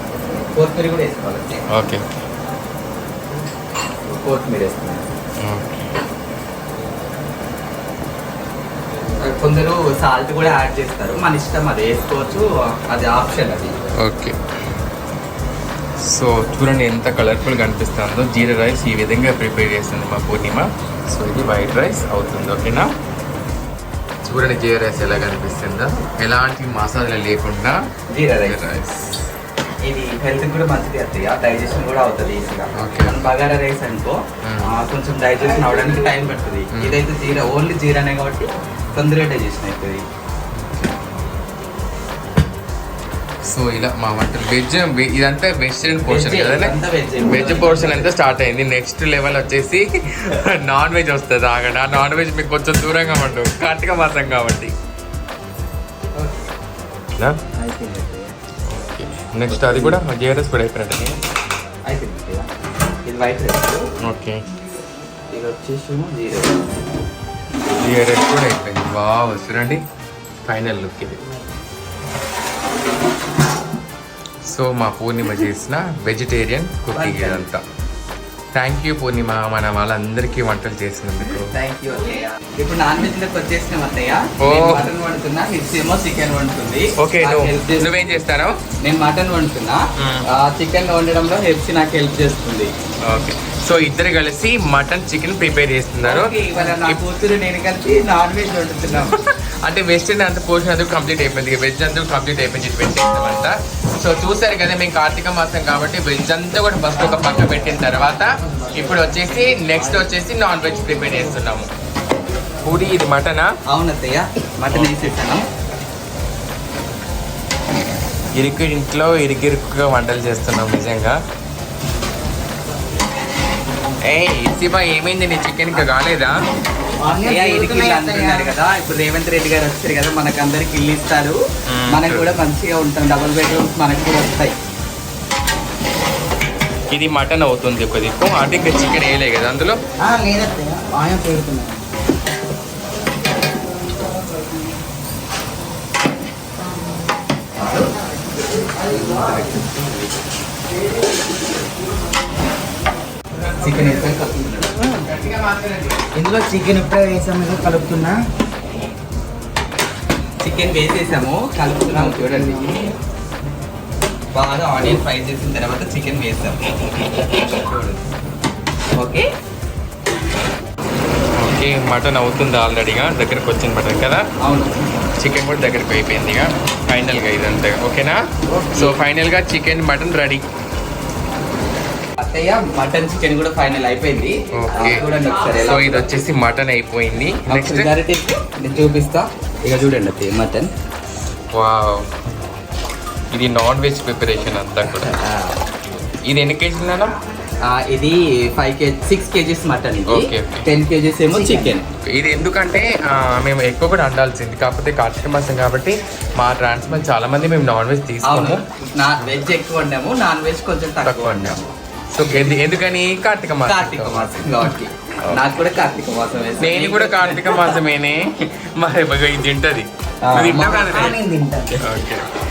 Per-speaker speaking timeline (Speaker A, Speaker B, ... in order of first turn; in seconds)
Speaker A: 0.5-1.6, 4.1-5.1, 9.2-13.7, 28.1-28.6, 29.8-40.0, 46.0-48.1, 57.6-58.4, 59.5-60.0, 61.9-62.5, 63.0-63.9, 65.3-66.7, 76.9-77.5, 81.4-87.9, 88.8-89.8, 90.3-92.7, 96.0-99.1, 113.7-115.5, 127.2-131.4, 131.9-134.6, 147.6-147.9, 148.9-149.9, 153.5-154.9, 160.4-162.7, 164.3-166.6, 167.7-168.0, 169.0-169.3, 174.4-174.8, 178.5-179.0, 182.2-186.1, 187.5-190.7, 194.8-195.6, 197.7-201.9, 208.2-211.7, 212.2-212.6, 213.7-217.8, 220.2-221.0
Speaker B: 1.7-2.0, 5.4-5.9, 14.0-14.4, 16.0-22.9, 24.2-27.8, 28.4-29.2, 32.7-33.3, 34.4-34.7, 36.7-37.0, 40.5-41.0, 43.4-54.7, 58.6-61.2, 64.0-64.4, 67.8-69.8, 70.5-71.2, 74.4-77.6, 78.5-81.5, 84.4-84.9, 87.0-88.6, 90.0-90.2, 93.1-97.0, 98.9-111.7, 112.6-113.5, 114.7-115.2, 118.3-121.2, 124.1-126.3, 131.7-132.3, 136.9-139.8, 154.9-156.0, 171.4-174.2, 175.2-180.4, 184.5-185.0, 185.5-187.9, 191.5-192.1, 193.3-195.1, 196.2-197.1, 200.1-200.7, 202.0-208.6, 211.0-211.6, 212.1-215.4, 216.6-221.2, 221.8-222.2
Speaker C: 127.0-128.5, 140.0-141.8, 156.2-158.2, 161.9-162.9, 201.3-201.7, 220.8-221.8